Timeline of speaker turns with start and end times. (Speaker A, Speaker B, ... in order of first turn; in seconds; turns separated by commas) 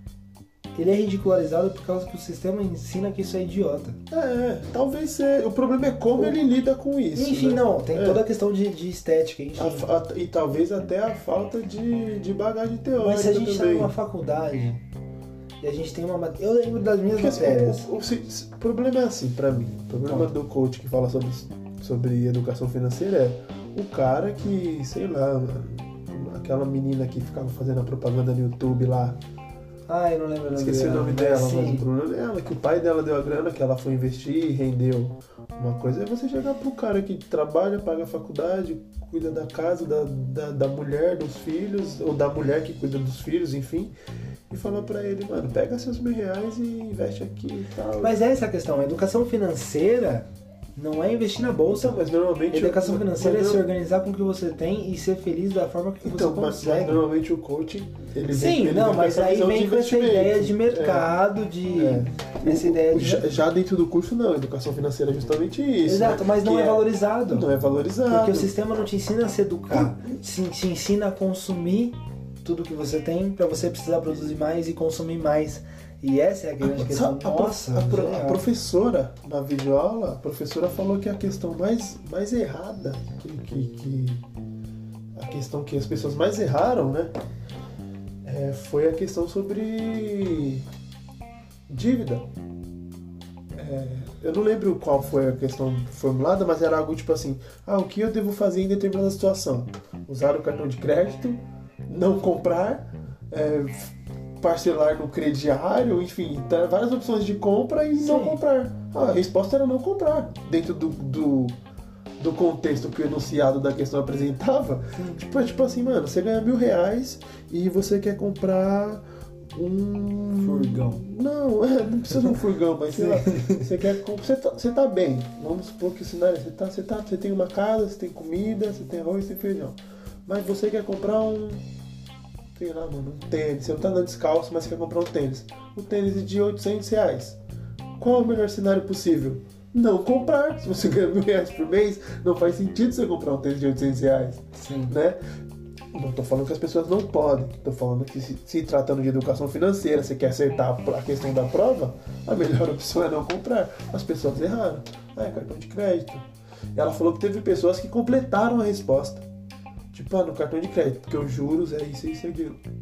Speaker A: 0.8-4.0, Speaker B: 4.1-8.2, Speaker A: 7.2-9.9, Speaker B: 9.6-13.9, Speaker A: 13.0-14.8, Speaker A: 15.6-17.9, Speaker B: 17.1-29.2, Speaker A: 29.9-31.9, Speaker B: 30.5-43.9, Speaker B: 44.5-48.2, Speaker A: 48.0-52.0, Speaker B: 51.7-53.7, Speaker A: 52.5-57.0, Speaker B: 56.0-61.2, Speaker A: 58.3-63.3, Speaker B: 61.7-68.5, Speaker A: 65.9-67.5, Speaker A: 68.1-78.4, Speaker B: 76.6-84.2, Speaker B: 85.2-87.1, Speaker B: 88.2-90.7, Speaker B: 91.7-92.3, Speaker B: 93.5-111.6, Speaker A: 108.0-108.4, Speaker B: 112.2-131.7, Speaker A: 114.9-115.2, Speaker A: 120.4-121.0, Speaker A: 122.9-123.7, Speaker B: 132.6-137.4, Speaker B: 138.0-145.2, Speaker A: 144.5-145.0, Speaker B: 145.9-159.2, Speaker B: 159.9-162.6